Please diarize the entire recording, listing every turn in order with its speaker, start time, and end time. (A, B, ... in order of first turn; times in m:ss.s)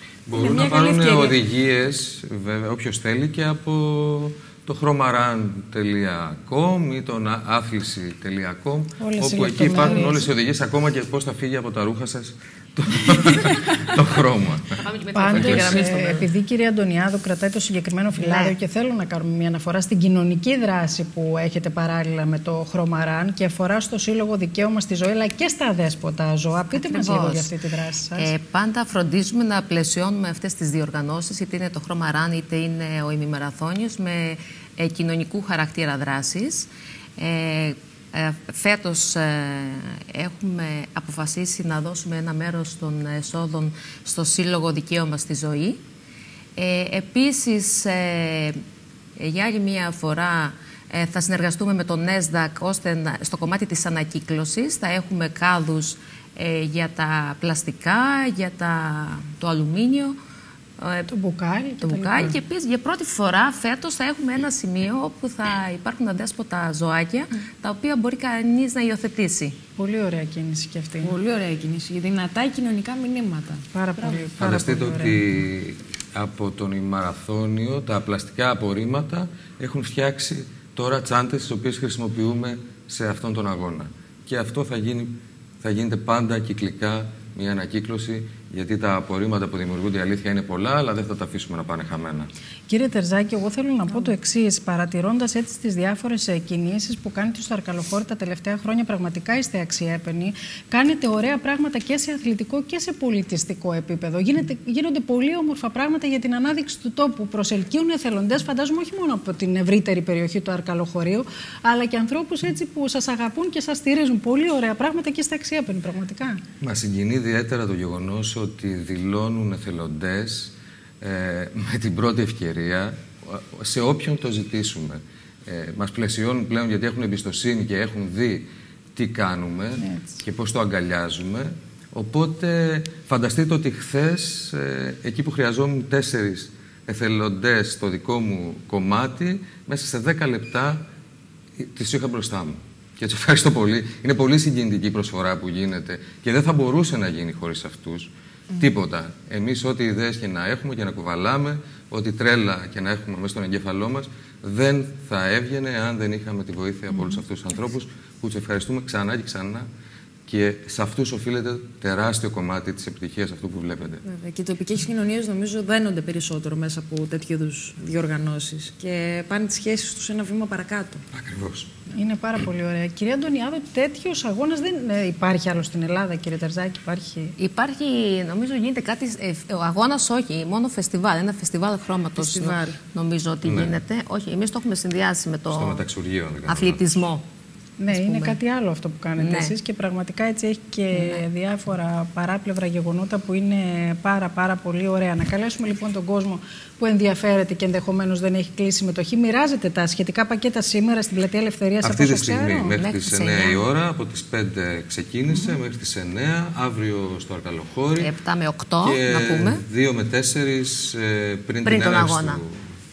0:00.2-0:15.9 A
0:00.3-0:01.4 B
0:09.0-0:10.3 C
0:14.8-0:16.3 D
0:15.1-0:28.3 C
0:18.2-0:18.5 D
0:26.7-0:27.5 D
0:28.1-0:45.8 D
0:46.6-0:48.6 D
0:49.2-1:00.2 D
1:00.8-1:01.1 D
1:01.1-1:02.4 C
1:01.8-1:09.6 D
1:09.8-1:11.1 C
1:11.0-1:13.6 B
1:13.7-1:15.2 C
1:14.4-1:32.3 A
1:32.7-1:56.4 C
1:56.6-2:20.8 A
2:09.8-2:10.2 C
2:21.6-2:39.7 A
2:40.3-2:44.0 A
2:44.0-2:51.0 B
2:51.1-2:51.7 A
2:51.9-2:57.3 C
2:57.4-3:05.8 D
3:02.2-3:02.8 B
3:03.4-3:03.7 A
3:05.5-3:06.8 A
3:06.5-3:07.2 D
3:07.8-3:22.7 C
3:07.9-3:08.4 D
3:09.2-3:09.5 D
3:10.9-3:11.2 D
3:21.8-3:28.1 A
3:22.7-3:23.6 D
3:28.0-3:29.6 D
3:28.8-3:32.6 A
3:31.6-3:32.4 D